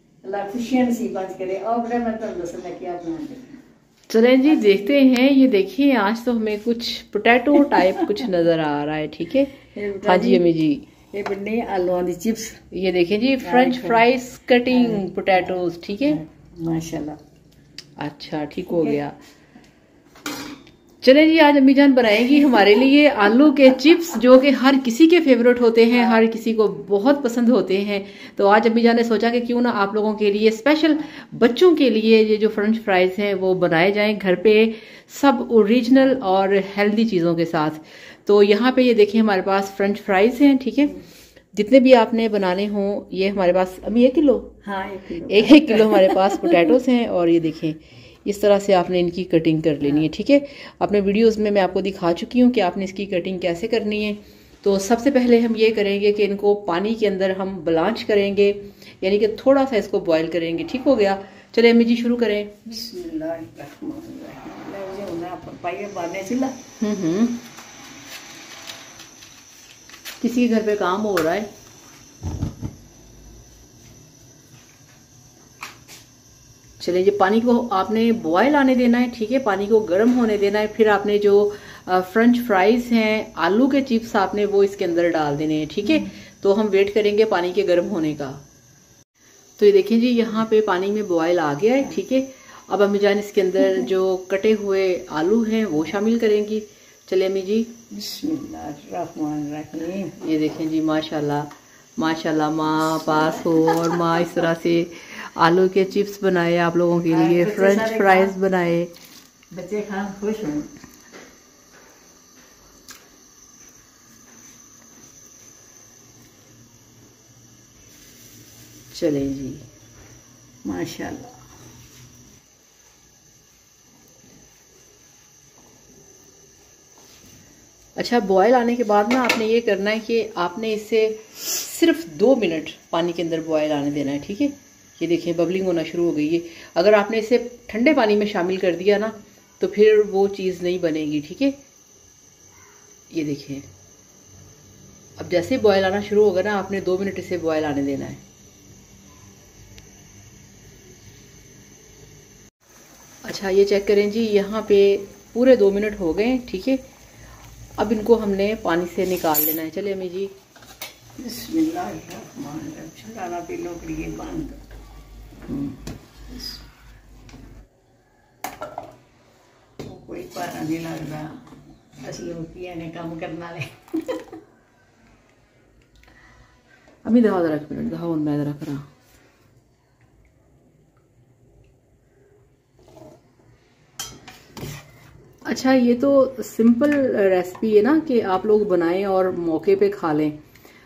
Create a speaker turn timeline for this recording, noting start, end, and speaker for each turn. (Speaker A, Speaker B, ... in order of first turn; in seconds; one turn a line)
Speaker A: 0.2-3.6
Speaker B: 4.1-10.8
Speaker A: 9.7-10.5
Speaker A: 11.1-12.6
Speaker B: 12.7-16.2
Speaker A: 13.4-14.0
Speaker A: 14.7-17.2
Speaker B: 18.0-19.1
Speaker B: 21.0-41.0
Speaker B: 41.5-44.6
Speaker A: 44.6-46.7
Speaker B: 45.3-62.5
Speaker A: 62.6-66.6
Speaker B: 66.8-67.4
Speaker B: 70.2-71.5
Speaker B: 76.8-88.4
Speaker B: 89.6-97.7
Speaker A: 97.9-100.1
Speaker B: 100.2-108.9
Speaker A: 103.5-103.9
Speaker A: 107.1-108.3
Speaker A: 109.5-110.7
Speaker B: 118.9-119.6
Speaker A: 120.6-121.4
Speaker B: 128.0-141.6
Speaker B: 143.1-143.6
Speaker B: 145.2-148.2
Speaker B: 153.2-156.8
Speaker B: 157.8-160.3
Speaker A: 161.2-164.6
Speaker A: 166.3-166.6
Speaker A: 169.8-171.4
Speaker A: 172.0-174.2
Speaker B: 177.0-178.8
Speaker B: 185.5-190.4